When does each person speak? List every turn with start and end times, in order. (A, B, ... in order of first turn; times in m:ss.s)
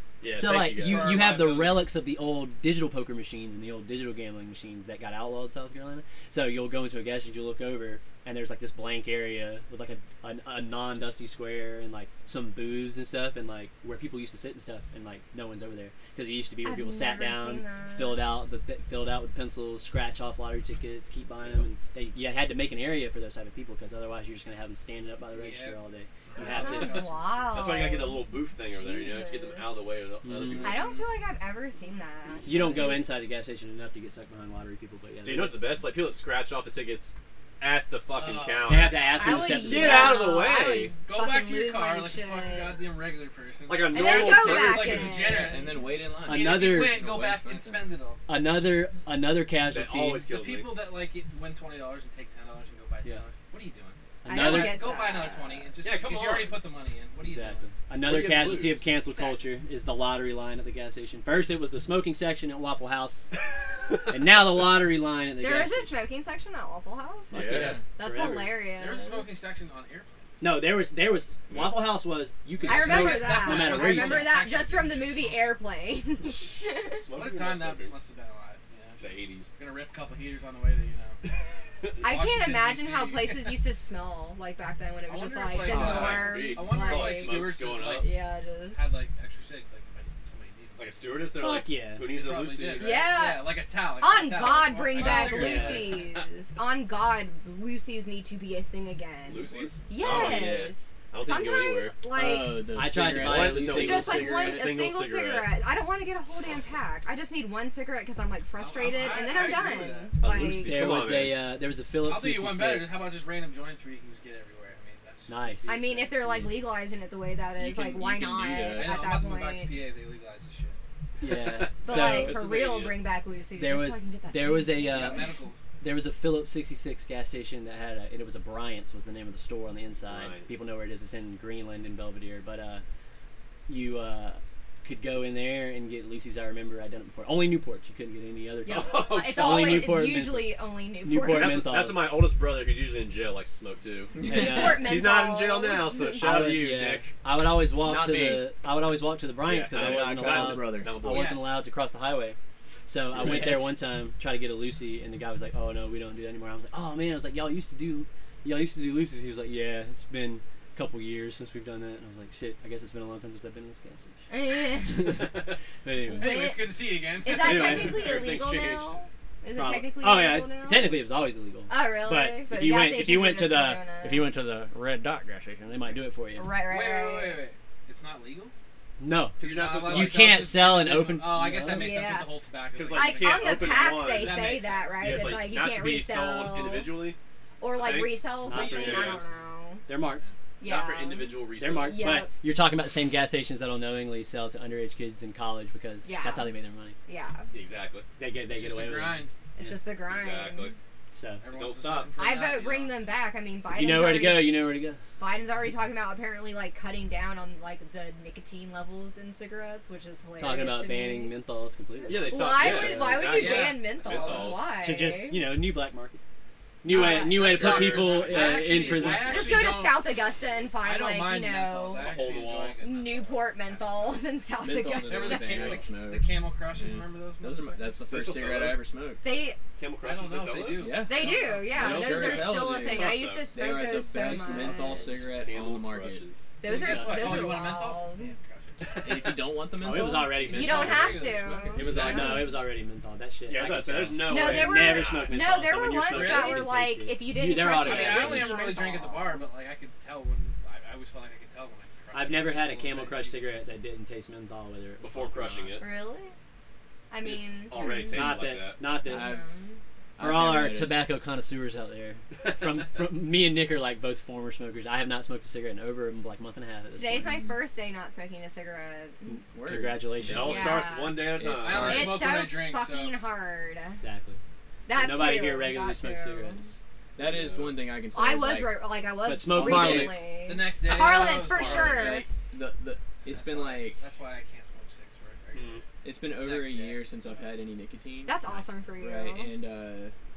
0:00.2-0:01.3 A
0:00.3-0:27.1 B
0:00.7-0:01.9 C
0:16.6-0:18.2 D
0:25.3-0:25.8 C
0:26.4-0:27.7 C
0:26.4-0:29.7 D
0:27.5-0:30.8 A
0:30.2-0:30.8 B
0:30.6-0:31.0 C
0:30.6-0:33.0 D
0:32.4-0:35.6 B
0:32.5-0:32.8 E
0:35.2-0:40.9 A
0:38.1-0:39.2 C
0:38.6-0:40.2 B
0:39.2-0:42.8 D
0:41.0-0:48.2 C
0:43.7-0:45.2 A
0:43.9-0:45.7 D
0:45.2-0:47.9 E
0:46.2-0:47.1 B
0:48.3-0:50.2 B
0:49.6-0:50.8 A
0:50.3-0:57.7 C
0:54.2-0:54.9 B
0:54.3-0:55.7 D
0:55.8-0:56.6 A
0:57.2-1:03.3 B
0:58.0-0:58.8 A
1:04.1-1:06.0 B
1:05.4-1:09.5 D
1:07.3-1:08.6 B
1:07.3-1:07.8 A
1:07.5-1:07.8 E
1:08.7-1:10.5 C
1:10.4-1:14.4 B
1:11.5-1:11.9 A
1:12.6-1:15.6 C
1:12.6-1:17.0 D
1:16.9-1:17.9 A
1:17.1-1:21.2 C
1:19.0-1:19.6 A
1:22.0-1:23.5 C
1:22.0-1:28.9 D
1:25.0-1:28.1 C
1:25.6-1:28.0 A
1:28.7-1:31.0 C
1:30.8-1:33.0 A
1:31.4-1:32.0 B
1:32.0-1:36.1 C
1:32.8-1:42.7 D
1:35.0-1:35.9 B
1:39.2-1:42.0 A
1:40.0-1:40.3 C
1:42.1-1:44.7 E
1:42.7-1:44.3 B
1:43.1-1:45.5 A
1:43.7-1:50.8 D
1:48.6-1:50.2 C
1:50.2-1:51.4 A
1:50.2-1:53.2 B
1:52.0-1:56.2 C
1:55.3-1:56.6 B
1:55.7-1:59.7 D
1:57.6-1:59.1 E
1:58.7-2:00.8 C
2:01.2-2:02.4 B
2:01.6-2:03.0 A
2:01.8-2:05.3 D
2:03.5-2:12.8 B
2:04.8-2:05.6 C
2:10.0-2:10.6 A
2:13.7-2:22.2 B
2:18.6-2:21.8 D
2:18.7-2:20.0 A
2:21.3-2:27.1 A
2:24.1-2:24.8 E
2:24.2-2:24.9 B
2:24.3-2:26.4 D
2:26.2-2:44.2 B
2:27.8-2:28.5 E
2:29.4-2:31.5 A
2:29.7-2:31.0 E
2:31.1-2:31.5 C
2:33.1-2:33.7 E
2:44.3-2:45.4 D
2:44.8-2:45.3 B
2:45.8-2:46.4 B
2:46.2-2:48.1 C
2:46.2-2:51.0 D
2:47.4-2:49.0 A
2:47.4-2:48.0 B
2:49.5-2:56.5 B
2:51.7-2:54.3 D
2:56.4-2:57.4 D
2:56.6-2:58.5 C
2:59.0-3:01.9 B
2:59.4-3:00.4 A
2:59.4-3:05.2 C
3:01.6-3:02.3 D
3:02.7-3:04.4 A
3:02.9-3:06.9 D
3:05.0-3:07.2 A
3:07.6-3:09.8 D
3:07.7-3:09.2 A
3:08.4-3:09.2 B
3:08.9-3:09.2 C
3:09.9-3:10.2 B
3:10.6-3:12.3 D
3:10.6-3:12.2 A
3:11.6-3:17.0 B
3:16.0-3:16.5 D
3:17.1-3:17.5 D
3:17.5-3:18.0 A
3:18.2-3:19.9 B
3:18.5-3:19.3 C
3:19.6-3:20.7 D
3:20.1-3:20.7 A
3:21.1-3:21.4 B
3:21.4-3:23.3 C
3:21.5-3:22.1 A
3:22.2-3:31.3 D
3:23.7-3:25.0 B
3:30.4-3:33.3 B
3:32.0-3:35.4 D
3:32.1-3:34.7 A
3:33.2-3:34.6 C
3:34.8-3:36.2 B
3:36.8-3:39.6 B
3:36.9-3:37.6 D
3:36.9-3:39.3 A
3:37.3-3:40.1 C
3:39.2-3:42.1 D
3:40.7-3:44.2 C
3:41.9-3:42.8 A
3:42.8-3:45.8 D
3:44.6-3:49.2 E
3:45.0-3:48.0 C
3:48.1-3:48.9 A
3:49.2-3:49.6 D
3:49.8-3:51.0 A
3:50.0-3:52.1 C
3:50.8-3:56.2 E
3:51.0-3:55.2 D
3:51.8-3:53.5 A
3:55.3-3:56.5 A
3:56.6-3:58.3 D
3:56.6-3:59.3 C
3:56.7-3:57.6 B
3:59.0-4:02.6 E
3:59.8-4:08.7 B
4:00.5-4:02.4 D
4:00.5-4:01.6 C
4:03.5-4:05.4 A
4:04.2-4:09.4 D
4:06.1-4:06.7 C
4:07.8-4:13.5 C
4:12.1-4:15.8 B
4:15.0-4:15.8 A
4:15.8-4:16.3 D
4:17.1-4:18.3 D
4:17.2-4:18.8 A
4:18.1-4:19.4 B
4:19.0-4:19.4 E
4:19.1-4:19.8 D
4:20.2-4:21.1 E
4:20.2-4:27.4 B
4:26.9-4:29.4 D
4:29.3-4:30.9 B
4:29.5-4:32.2 E
4:30.3-4:32.1 A
4:30.4-4:34.0 D
4:31.6-4:33.2 C
4:34.0-4:34.4 B
4:34.9-4:36.6 D
4:34.9-4:36.8 B
4:37.2-4:38.9 E
4:37.2-4:37.8 A
4:38.1-4:42.3 D
4:39.2-4:40.3 B
4:39.4-4:40.3 E
4:40.4-4:42.2 C
4:41.6-4:41.9 A
4:41.9-4:44.0 E
4:43.2-4:47.3 C
4:45.5-4:45.8 A
4:46.0-4:48.4 E
4:48.2-4:49.5 D
4:48.4-4:48.8 C
4:49.0-4:50.1 E